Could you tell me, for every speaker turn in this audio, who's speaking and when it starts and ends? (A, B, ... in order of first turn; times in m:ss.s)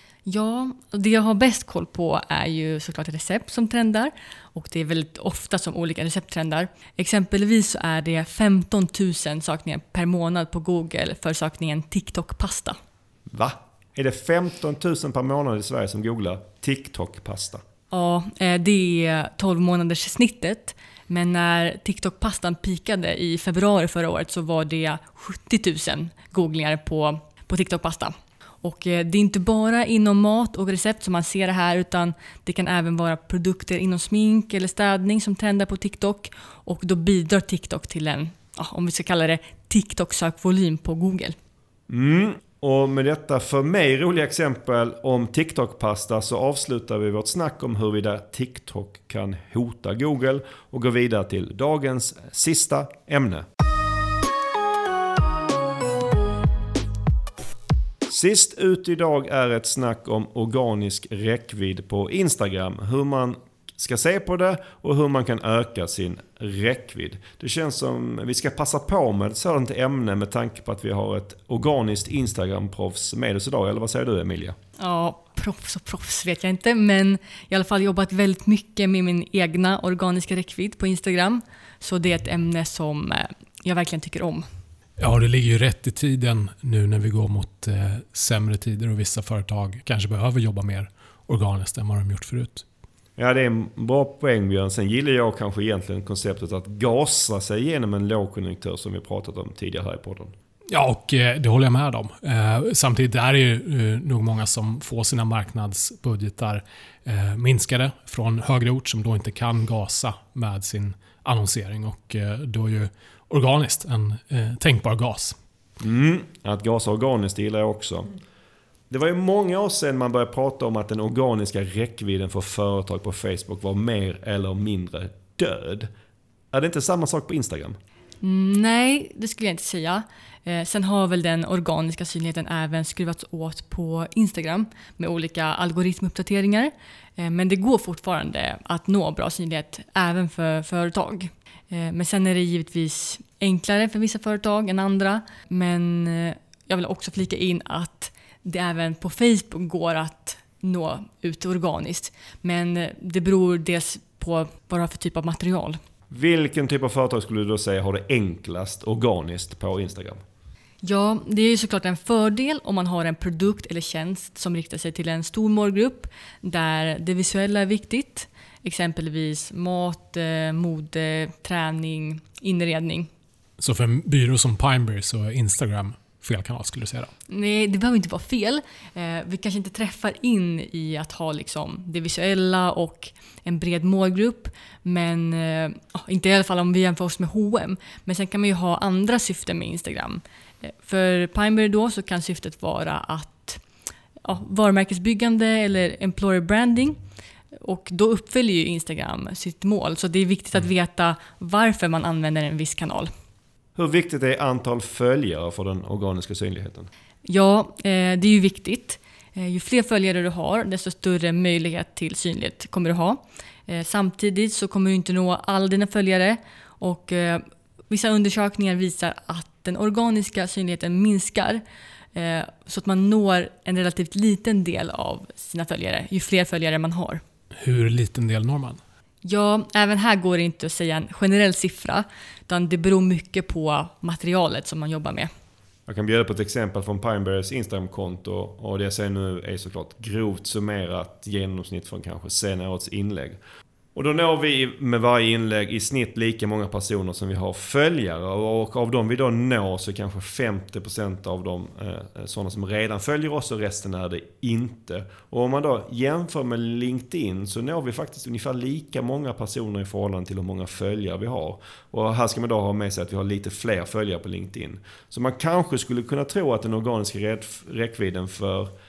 0:00.3-0:12.8 A
0:13.3-0:17.6 B
0:17.9-0:41.4 A
0:41.9-0:53.4 B
0:58.1-1:14.6 B
1:14.8-1:24.5 A
1:25.0-1:32.6 C
1:33.2-1:40.3 B
1:40.7-1:55.4 C
1:55.8-1:58.1 B
1:58.9-2:05.9 B
2:06.5-2:07.8 B
2:08.2-2:35.8 A
2:36.1-2:40.2 B
2:40.8-2:53.1 A
2:53.6-2:57.1 C
2:57.3-3:13.6 A
3:14.2-3:17.0 A
3:17.6-3:23.1 A
3:23.8-3:26.9 B
3:27.2-3:41.6 A
3:42.1-3:47.2 A
3:47.5-3:48.8 C
3:49.2-3:55.3 A
3:55.9-4:03.4 B
4:03.9-4:28.7 B